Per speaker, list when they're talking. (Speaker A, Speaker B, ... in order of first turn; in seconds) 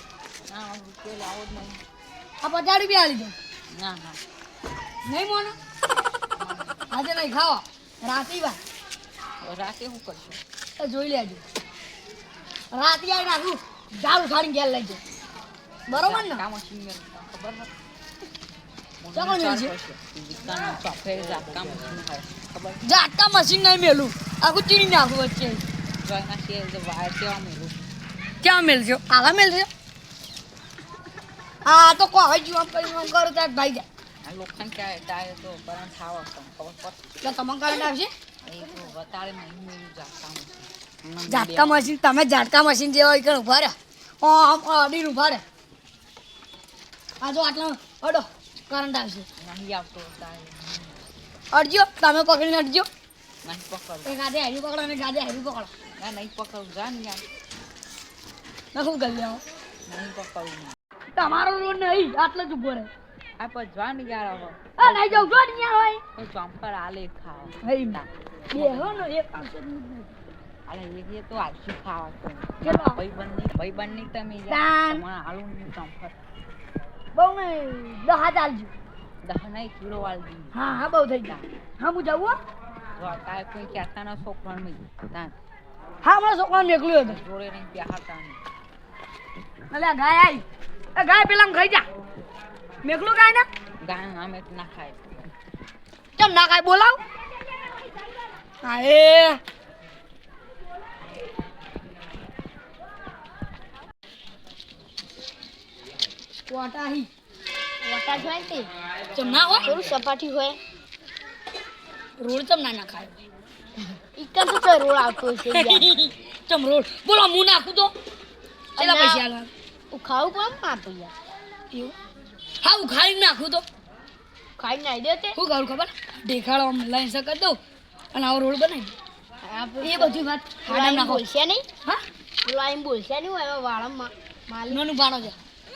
Speaker A: 0.5-1.8, 3.7-4.2, 6.3-6.8, 9.4-10.4, 15.9-17.7, 19.0-22.8, 25.9-27.9, 34.2-37.0, 38.5-41.9, 49.4-51.1, 53.4-54.1, 56.0-57.2, 59.8-60.8, 63.4-65.4, 66.1-69.2, 70.7-76.1, 79.2-81.4, 83.0-85.3, 87.0-88.4, 93.8-95.3
Speaker B: 2.4-3.3, 5.0-5.5, 6.9-8.6, 10.8-11.4, 12.7-15.0, 15.9-16.4, 19.1-19.7, 22.8-25.6, 28.4-29.7, 31.6-33.9, 37.2-38.1, 41.2-45.4, 47.2-49.3, 51.5-52.9, 54.0-55.7, 58.7-59.4, 61.1-62.9, 64.8-66.0, 67.6-70.1, 72.6-73.0, 74.5-75.0, 77.1-78.7, 80.5-82.4, 86.0-87.2, 89.7-90.4, 90.9-91.9, 92.8-93.5, 96.2-97.0, 98.6-99.4, 106.5-107.1, 109.1-109.7, 112.2-113.1, 115.5-117.9, 118.8-119.5, 122.6-123.6, 125.3-127.6, 128.1-128.9, 129.8-131.2, 134.7-135.4
Speaker C: 107.8-108.7, 109.6-110.6, 114.1-115.9, 118.8-119.2, 119.9-121.1, 124.6-125.4, 129.4-131.6, 132.4-134.8